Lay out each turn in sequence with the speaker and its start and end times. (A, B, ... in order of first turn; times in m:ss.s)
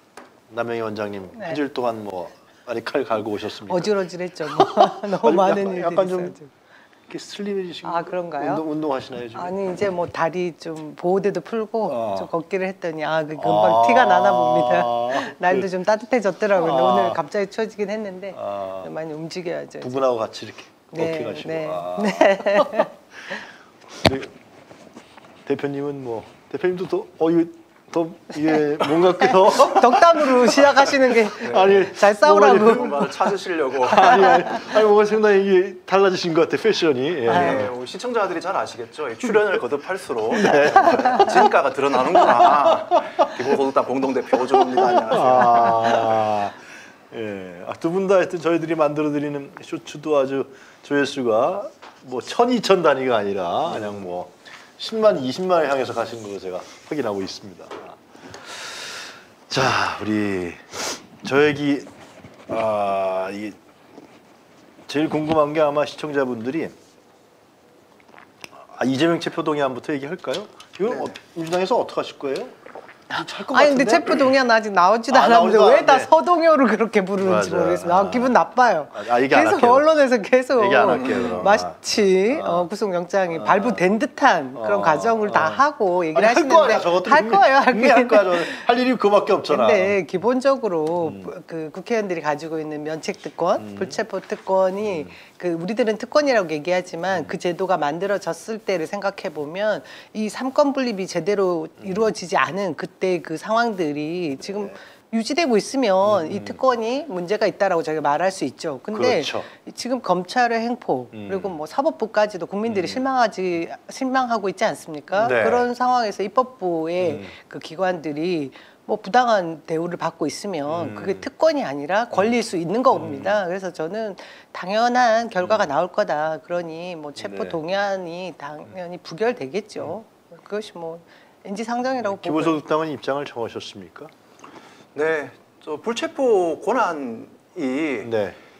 0:00.5-0:06.4 A
0:01.3-0:01.6 B
0:03.7-0:06.5 B
0:07.1-0:09.5 A
0:07.8-0:08.6 B
0:09.3-0:19.9 B
0:11.8-0:12.3 A
0:13.4-0:15.7 A
0:16.5-0:17.2 A
0:18.3-0:18.9 A
0:19.8-0:22.9 A
0:20.9-0:22.9 B
0:23.9-0:24.3 A
0:25.4-0:33.3 A
0:29.2-0:33.0 B
0:32.4-0:34.5 C
0:33.8-0:37.7 A
0:34.1-0:34.7 B
0:37.3-0:46.2 C
0:37.3-0:37.6 B
0:40.3-0:43.5 A
0:40.9-0:41.2 B
0:44.3-0:46.6 A
0:47.1-1:01.9 A
1:02.5-1:03.6 A
1:04.9-1:06.7 A
1:08.6-1:12.5 A
1:13.1-1:28.7 B
1:13.1-1:14.3 A
1:15.1-1:16.1 A
1:17.2-1:18.4 A
1:18.9-1:19.9 A
1:20.6-1:22.7 A
1:21.0-1:21.4 C
1:23.3-1:23.8 A
1:24.5-1:30.0 A
1:29.5-2:12.6 B
1:31.0-1:31.3 A
1:33.6-1:34.0 A
1:34.8-1:35.1 A
1:37.1-1:37.4 A
1:41.8-1:42.1 A
1:44.4-1:44.8 A
1:46.0-1:46.6 A
1:48.9-1:49.5 A
1:51.1-1:51.6 A
1:52.6-1:53.0 A
1:55.1-1:55.7 A
1:57.0-1:57.3 A
2:00.7-2:01.3 A
2:02.9-2:03.4 A
2:05.4-2:05.7 A
2:07.2-2:07.6 A
2:12.0-2:14.1 A
2:14.9-2:18.1 C
2:18.0-2:18.4 A